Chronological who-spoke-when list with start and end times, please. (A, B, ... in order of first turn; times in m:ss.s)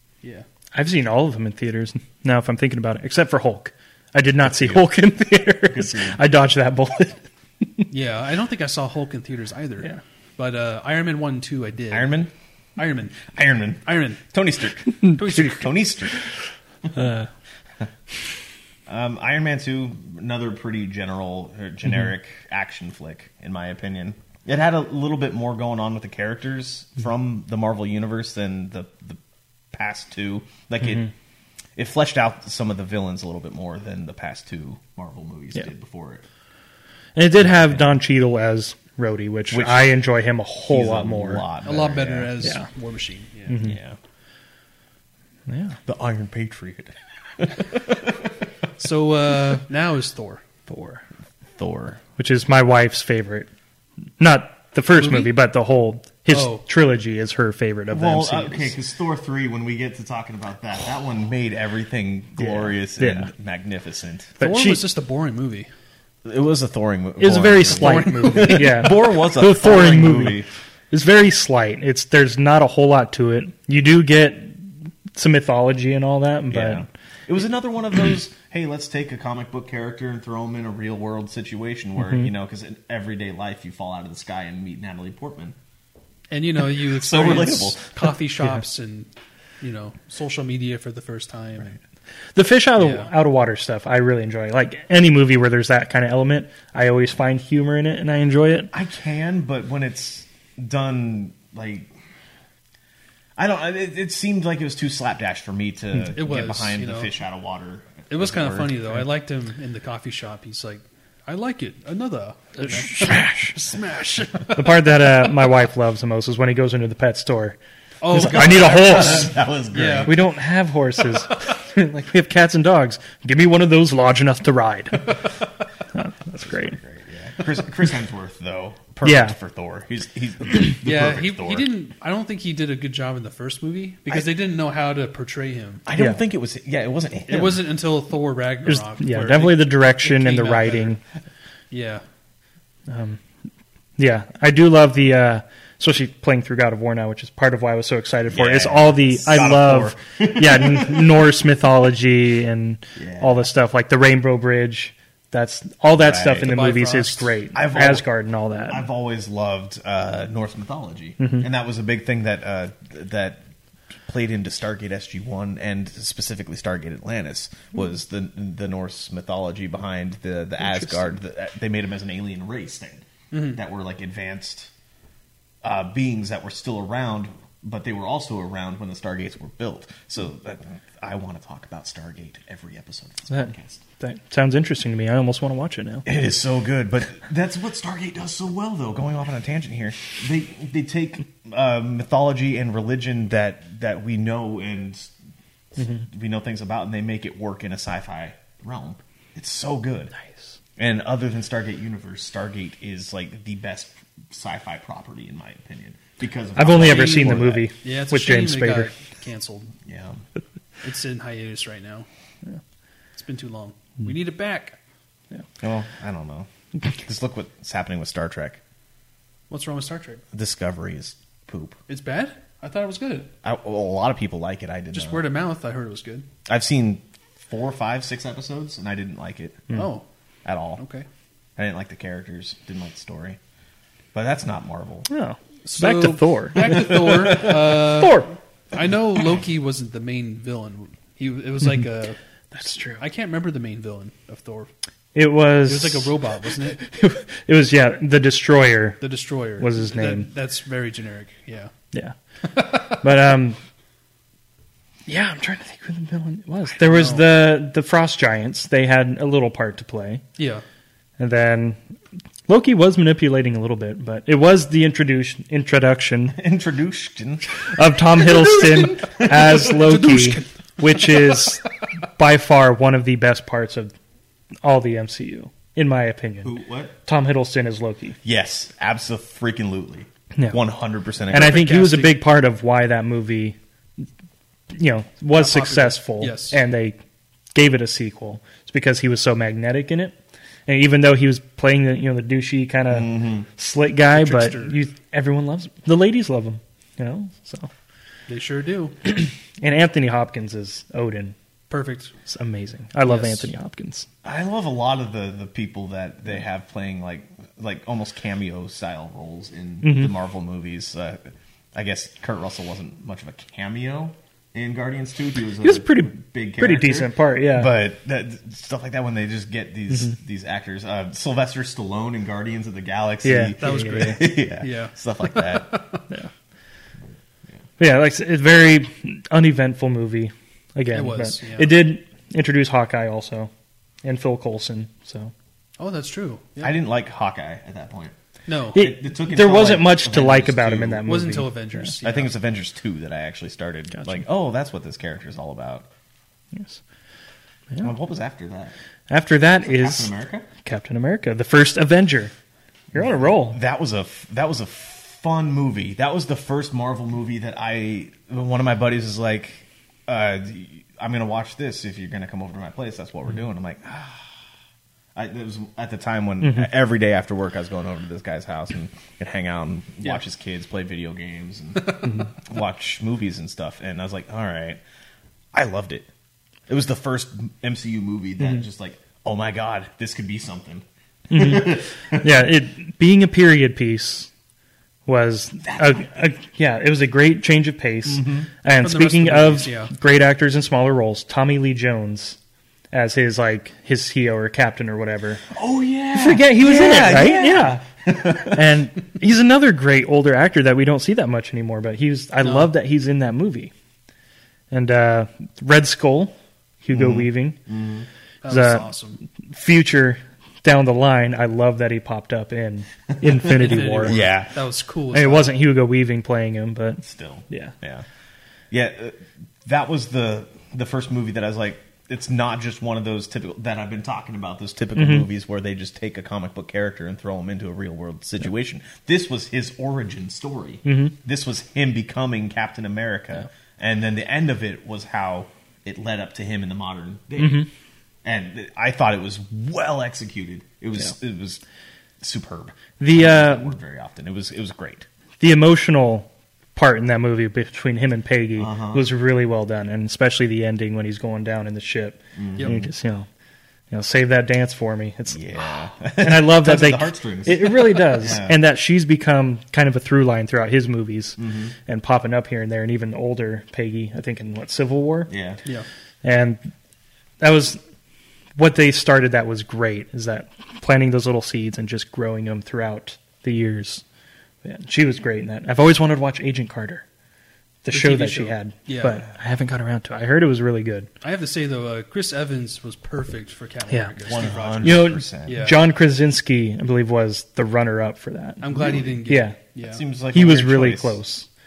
0:00.7-0:07.8 A
0:04.4-0:04.8 B
0:05.6-0:06.2 B
0:07.9-0:12.1 C
0:11.9-0:12.3 B
0:12.8-0:13.3 C
0:13.2-0:16.2 B
0:13.8-0:14.2 C
0:15.1-0:15.7 C
0:17.0-0:17.2 A
0:18.9-0:29.2 B
0:29.7-0:31.1 B
0:31.8-0:36.2 B
0:37.2-0:41.4 A
0:37.4-0:38.0 B
0:39.5-0:40.1 B
0:40.7-0:42.4 B
0:41.6-0:43.6 C
0:43.5-0:43.8 A
0:43.6-0:44.0 B
0:45.5-0:45.8 A
0:45.8-0:48.3 B
0:48.8-0:50.4 C
0:50.7-0:51.0 A
0:51.6-0:52.0 B
0:52.2-0:53.5 A
0:54.2-0:58.7 A
0:55.0-0:55.3 C
0:56.3-0:56.6 C
0:57.9-1:04.4 B
1:02.4-1:03.3 A
1:04.4-1:04.8 A
1:04.4-1:05.7 C
1:06.2-1:10.5 B
1:07.2-1:16.8 A
1:07.8-1:08.9 C
1:16.5-1:25.6 B
1:26.3-1:29.1 C
1:26.9-1:27.9 B
1:29.6-1:31.8 C
1:32.3-1:38.7 A
1:32.8-1:33.1 C
1:38.7-1:41.9 B
1:43.4-1:49.0 B
1:46.1-1:47.1 C
1:48.1-1:55.0 C
1:52.6-1:53.6 A
1:54.5-1:57.6 A
1:58.0-2:00.2 C
1:58.1-1:59.3 A
1:58.2-2:00.2 B
2:00.0-2:05.3 A
2:05.9-2:06.8 A
2:06.3-2:11.7 B
2:09.0-2:09.4 A
2:10.6-2:15.8 C
2:15.8-2:17.7 B
2:15.9-2:16.2 A
2:17.3-2:21.0 C
2:18.6-2:21.0 A
2:21.7-2:22.0 C
2:22.9-2:23.2 A
2:24.0-2:38.8 A
2:28.3-2:31.3 B
2:33.0-2:33.4 B
2:36.0-2:36.6 B
2:36.4-2:37.4 C
2:37.5-2:38.1 B
2:38.6-2:43.4 B
2:41.2-2:41.4 A
2:44.0-2:54.7 B
2:53.3-2:53.6 C
2:55.6-3:03.8 B
3:03.3-3:06.1 A
3:06.0-3:15.1 B
3:15.7-3:20.1 B
3:20.8-3:27.7 B
3:26.6-3:28.9 A
3:26.8-3:29.7 C
3:29.8-3:30.2 B
3:30.8-3:32.0 C
3:33.2-3:34.8 C
3:35.6-3:38.6 B
3:39.5-3:40.2 C
3:40.3-3:41.8 B
3:41.9-3:43.3 C
3:43.4-3:45.3 B
3:44.9-3:46.3 C
3:46.5-3:49.8 B
3:49.7-3:50.0 C
3:50.4-3:50.8 B
3:50.8-3:51.0 C
3:51.6-3:53.4 B
3:54.1-3:55.1 B
3:55.1-3:58.3 A
3:55.6-4:02.2 C
3:56.6-3:57.8 B
4:02.5-4:03.0 A
4:03.0-4:04.7 C
4:05.1-4:06.1 A
4:05.6-4:06.8 C
4:06.7-4:09.0 A
4:09.0-4:11.7 C
4:09.6-4:10.3 A
4:11.9-4:13.6 A
4:12.5-4:13.0 C
4:15.1-4:20.2 A
4:16.8-4:17.4 C
4:20.4-4:20.6 C
4:21.2-4:21.8 A
4:22.5-4:26.4 A
4:26.3-4:27.4 B
4:27.7-4:31.6 A
4:28.4-4:31.5 C
4:32.2-4:33.9 A
4:34.6-4:36.5 A
4:36.4-4:37.0 B
4:37.0-4:38.2 A
4:38.2-4:41.6 B
4:41.3-4:43.6 A
4:41.3-4:42.2 C
4:44.7-4:47.0 A
4:45.3-4:46.6 C
4:47.5-4:50.2 A
4:50.7-4:57.7 A
4:52.9-4:53.4 B
4:54.1-4:54.8 C
4:58.3-4:59.0 C
4:59.0-5:01.3 A
5:01.7-5:02.1 C
5:02.2-5:04.1 A
5:03.0-5:03.5 C
5:04.2-5:25.8 B
5:09.8-5:10.1 A
5:15.6-5:17.7 A
5:23.2-5:24.2 A
5:23.6-5:26.0 C
5:27.8-5:33.5 A
5:30.9-5:31.8 C
5:34.0-5:35.3 A
5:35.8-5:36.7 C
5:36.6-5:38.1 B
5:38.5-5:38.8 C
5:38.7-5:41.1 B
5:38.7-5:41.9 A
5:41.0-5:42.3 C
5:42.0-5:45.9 B
5:47.8-5:48.7 B
5:49.1-5:52.3 A
5:49.6-5:50.5 B
5:52.9-5:53.6 A
5:52.9-6:04.3 B
6:05.1-6:14.8 B
6:15.5-6:16.1 B
6:16.7-6:22.4 B
6:21.3-6:24.3 A
6:25.0-6:32.4 A
6:25.6-6:26.1 B
6:28.1-6:28.5 B
6:28.8-6:29.9 C
6:32.9-6:35.4 A
6:35.5-6:38.7 B
6:36.1-6:43.7 A
6:42.4-6:42.7 C
6:44.7-6:47.6 A
6:46.9-6:48.1 B
6:48.4-6:49.2 C
6:48.5-6:48.9 A
6:49.5-6:54.2 A
6:53.5-6:55.5 C
6:54.0-6:54.5 B
6:55.1-6:57.7 A
6:57.0-6:58.0 B
6:58.7-7:17.7 B
7:05.0-7:05.3 A
7:10.8-7:11.1 A
7:17.4-7:17.7 A
7:18.2-7:21.6 B
7:22.2-7:25.1 B
7:23.0-7:23.7 A
7:25.4-7:33.3 A
7:28.6-7:29.0 B
7:32.4-7:32.8 B
7:33.9-7:35.5 A
7:35.3-7:38.6 B
7:36.2-7:45.3 A
7:41.4-7:41.7 B
7:45.3-7:45.6 B
7:46.2-7:46.7 A
7:47.4-7:47.8 A
7:48.6-7:54.0 A
7:54.6-7:57.0 A
7:57.8-8:01.1 A
7:57.9-7:59.2 C
8:01.2-8:05.8 C
8:03.9-8:04.1 A
8:04.2-8:05.6 B
8:04.8-8:08.6 A
8:08.6-8:10.0 C
8:08.7-8:09.2 B
8:09.3-8:09.6 A
8:09.8-8:11.2 B
8:10.3-8:11.5 A